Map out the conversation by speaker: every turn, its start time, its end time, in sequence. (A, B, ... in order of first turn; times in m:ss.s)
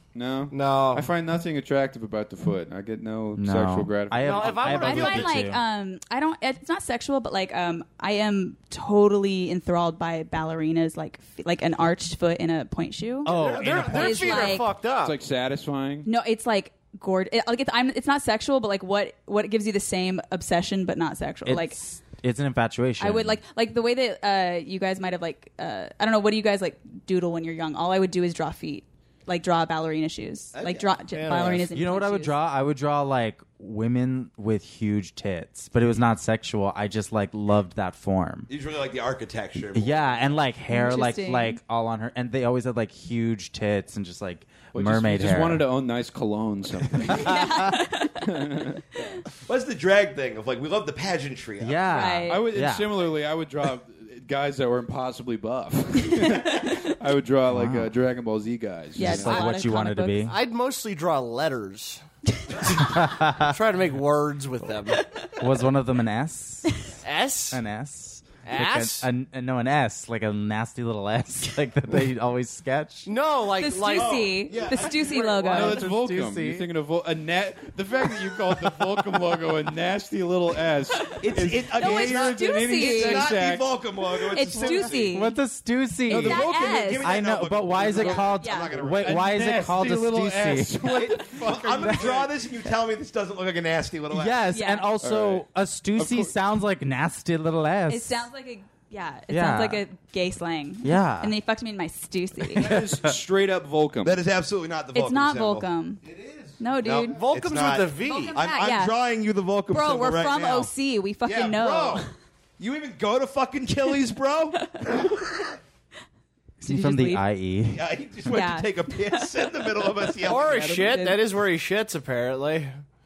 0:00.2-0:05.3 A
0:00.5-0:01.1 B
0:03.4-0:05.6 C
0:04.2-0:05.4 B
0:04.8-0:14.7 D
0:13.2-0:14.5 C
0:13.3-0:15.2 B
0:13.3-0:14.5 E
0:15.0-0:16.1 A
0:16.0-0:21.8 D
0:21.4-0:23.4 C
0:23.0-0:32.4 D
0:30.5-0:30.9 E
0:31.1-0:31.7 B
0:31.8-0:38.5 C
0:38.5-0:40.3 E
0:39.8-0:45.6 C
0:40.7-0:41.6 D
0:44.8-0:47.4 A
0:47.1-0:47.8 C
0:47.2-0:48.5 D
0:48.2-0:48.9 A
0:49.4-0:52.0 E
0:51.6-0:52.9 C
0:51.9-0:52.4 D
0:52.3-0:59.4 A
0:56.3-0:56.7 D
0:57.5-0:57.9 C
0:59.0-1:00.3 D
0:59.0-1:00.3 C
1:00.2-1:02.0 B
1:02.6-1:05.0 B
1:02.8-1:03.4 C
1:04.9-1:05.4 D
1:05.4-1:06.8 C
1:06.7-1:07.0 D
1:07.0-1:07.6 B
1:07.5-1:13.1 C
1:08.4-1:09.1 B
1:13.1-1:14.3 B
1:13.6-1:15.9 D
1:13.9-1:15.5 E
1:15.4-1:16.7 C
1:15.5-1:23.7 A
1:21.2-1:25.3 E
1:21.8-1:23.3 D
1:24.3-1:25.4 D
1:25.0-1:32.3 C
1:26.1-1:26.8 A
1:26.2-1:27.1 D
1:26.2-1:29.5 E
1:28.0-1:28.8 D
1:29.0-1:32.2 A
1:30.9-1:34.4 E
1:34.1-1:38.3 C
1:34.5-1:34.9 D
1:35.0-1:36.4 A
1:37.9-1:42.7 D
1:39.3-1:39.8 C
1:40.8-1:41.3 C
1:42.6-1:44.2 A
1:42.7-1:43.1 C
1:44.0-1:50.7 E
1:44.9-1:46.0 D
1:46.6-1:47.2 D
1:47.1-1:48.4 B
1:48.0-1:49.0 D
1:49.7-1:52.1 D
1:51.2-1:52.1 E
1:52.6-1:55.3 E
1:54.6-1:55.1 D
1:56.6-1:57.9 C
1:56.6-1:57.3 D
1:57.7-2:01.1 E
1:58.3-2:01.3 D
2:00.2-2:02.8 B